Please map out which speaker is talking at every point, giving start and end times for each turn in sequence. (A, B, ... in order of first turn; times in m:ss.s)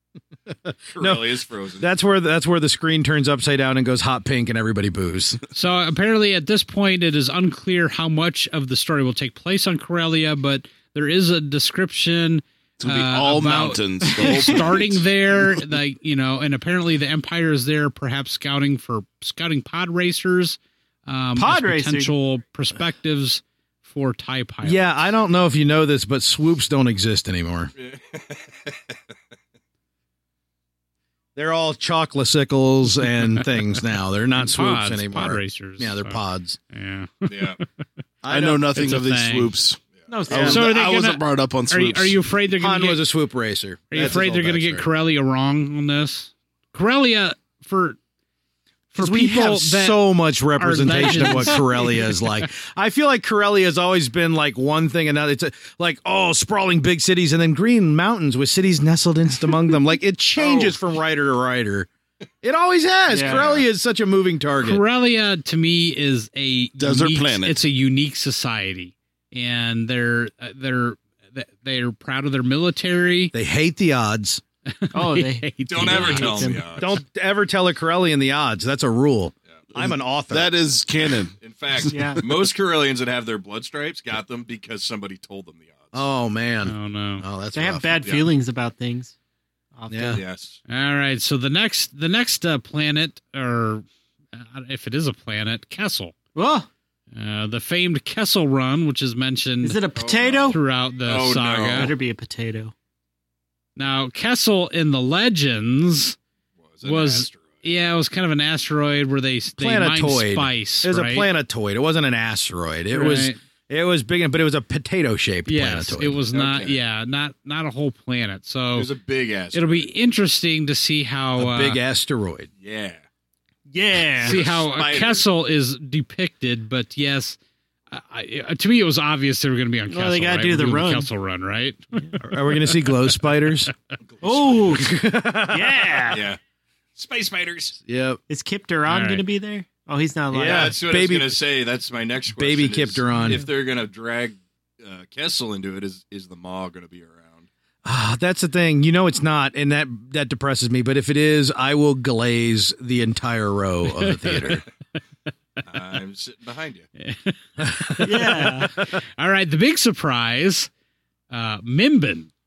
0:00.7-0:05.4 A
0:00.9-0:01.9 B
0:05.5-0:24.9 C
0:12.8-0:15.0 D
0:14.2-0:14.6 E
0:21.4-0:22.1 E
0:24.6-0:27.7 A
0:27.8-0:29.0 B
0:31.4-0:36.6 A
0:34.4-0:36.2 C
0:36.7-0:37.6 C
0:37.3-0:37.6 B
0:38.2-0:38.7 A
0:38.3-0:42.2 D
0:38.8-0:39.5 C
0:40.1-0:40.7 E
0:40.3-0:40.6 A
0:40.5-0:43.0 C
0:42.6-0:44.9 A
0:43.9-0:48.0 C
0:48.9-0:50.0 C
0:49.0-1:01.9 A
0:50.6-0:52.1 C
1:00.4-1:00.8 B
1:02.4-1:04.8 A
1:03.1-1:03.5 E
1:03.2-1:03.7 B
1:04.6-1:13.3 C
1:06.8-1:07.6 D
1:13.3-1:14.4 A
1:14.7-1:16.6 C
1:14.9-1:16.6 E
1:15.7-1:17.0 B
1:16.8-1:20.5 A
1:19.7-1:22.3 D
1:21.4-1:26.0 B
1:21.9-1:22.2 E
1:25.9-1:28.0 A
1:26.6-1:27.2 C
1:27.5-1:29.1 E
1:28.0-1:28.3 B
1:29.8-1:30.2 E
1:29.9-1:30.2 A
1:30.0-1:30.6 B
1:30.7-1:36.1 C
1:36.4-1:36.7 E
1:37.1-1:39.8 C
1:39.6-1:40.6 E
1:40.0-1:41.9 B
1:40.5-1:41.9 C
1:41.7-1:42.7 E
1:43.8-1:46.2 C
1:46.6-1:47.7 B
1:46.8-1:51.3 C
1:49.6-1:56.2 A
1:52.9-1:53.4 C
1:55.5-1:58.9 C
1:56.3-1:56.8 B
1:58.8-1:59.9 B
1:59.5-2:01.8 C
2:01.4-2:02.5 A
2:02.6-2:03.0 B
2:03.7-2:04.4 E
2:04.2-2:05.2 B
2:04.2-2:07.4 C
2:07.9-2:12.9 C
2:09.9-2:11.1 E
2:12.2-2:13.7 A
2:14.1-2:14.8 B
2:14.2-2:15.0 E
2:14.7-2:16.1 A
2:15.5-2:16.3 E
2:16.1-2:16.4 B
2:17.0-2:17.8 B
2:17.9-2:18.2 A
2:18.3-2:20.8 E
2:18.9-2:19.2 C
2:20.3-2:21.4 A
2:20.3-2:27.5 B
2:22.4-2:23.4 A
2:27.8-2:34.6 A
2:33.9-2:34.6 C
2:35.7-2:36.9 B
2:37.0-2:40.7 C
2:38.0-2:38.7 E
2:41.3-2:42.3 C